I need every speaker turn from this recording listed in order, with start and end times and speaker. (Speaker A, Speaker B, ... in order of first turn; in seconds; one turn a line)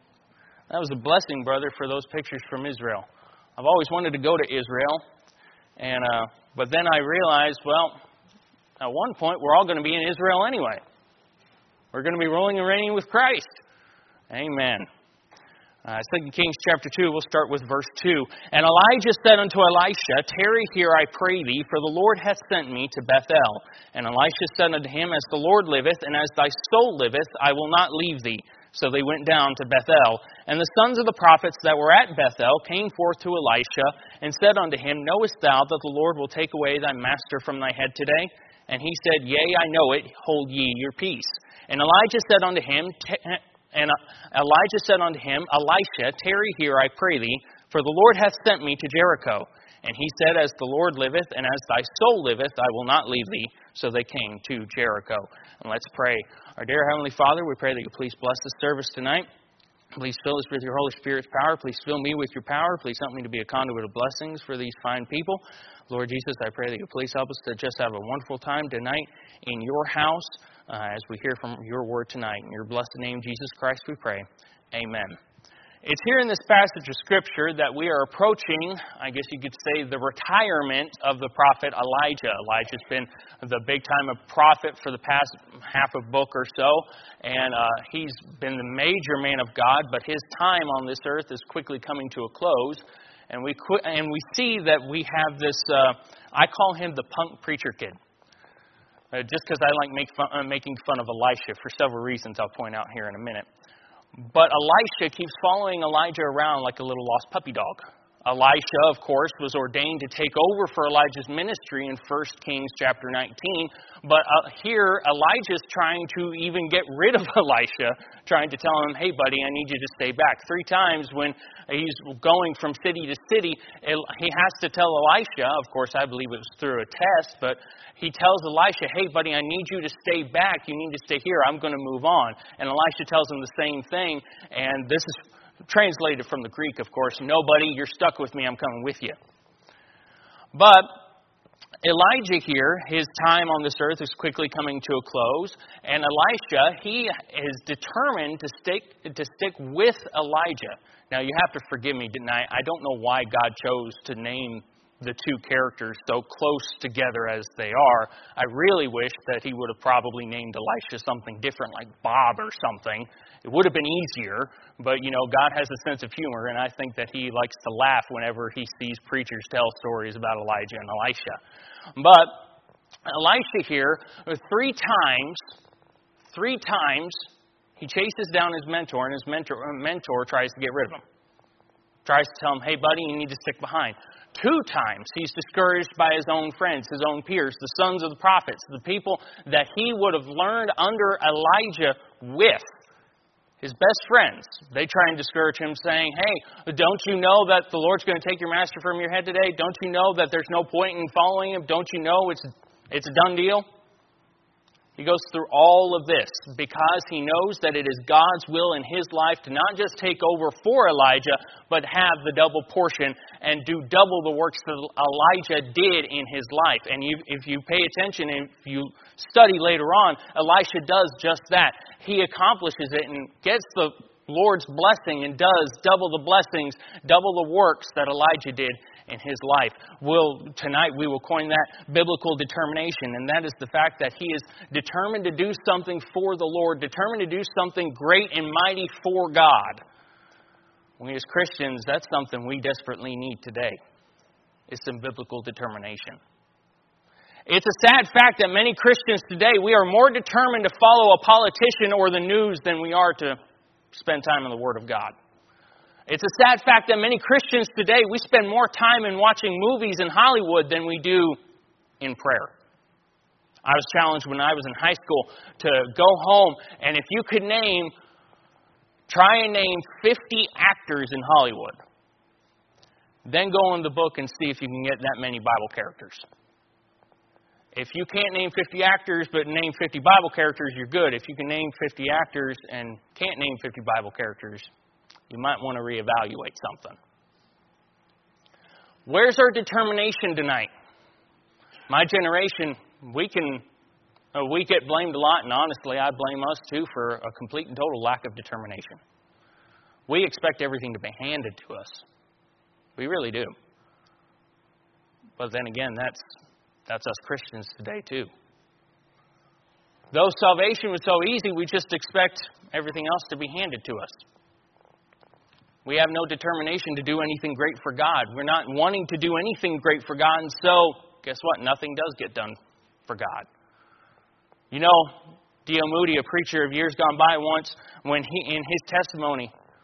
Speaker A: 0.7-3.0
Speaker A: 3.6-5.0
Speaker A: 5.8-8.0
Speaker A: 8.8-10.8
Speaker A: 11.9-13.6
Speaker A: 14.3-14.9
Speaker A: 15.8-59.3
Speaker A: 60.0-75.2
Speaker A: 75.8-98.0
Speaker A: 99.1-103.5
Speaker A: 104.2-139.2
Speaker A: 140.5-141.0
Speaker A: 141.8-171.4
Speaker A: 171.9-172.4
Speaker A: 173.1-175.4
Speaker A: 176.3-177.2
Speaker A: 177.8-181.0
Speaker A: 182.0-192.7
Speaker A: 193.6-203.6
Speaker A: 205.0-239.8
Speaker A: 241.0-243.8
Speaker A: 244.7-246.2
Speaker A: 247.5-253.4
Speaker A: 253.9-255.1
Speaker A: 256.1-261.4
Speaker A: 262.0-262.5
Speaker A: 263.6-267.9
Speaker A: 269.1-271.8
Speaker A: 273.2-276.2
Speaker A: 277.7-284.7
Speaker A: 285.3-287.0
Speaker A: 289.1-290.7
Speaker A: 291.9-293.6
Speaker A: 294.3-299.0
Speaker A: 300.1-302.0
Speaker A: 303.0-303.5
Speaker A: 305.4-306.2
Speaker A: 306.9-308.3
Speaker A: 310.1-314.2
Speaker A: 315.8-322.6
Speaker A: 323.1-323.4
Speaker A: 324.7-329.5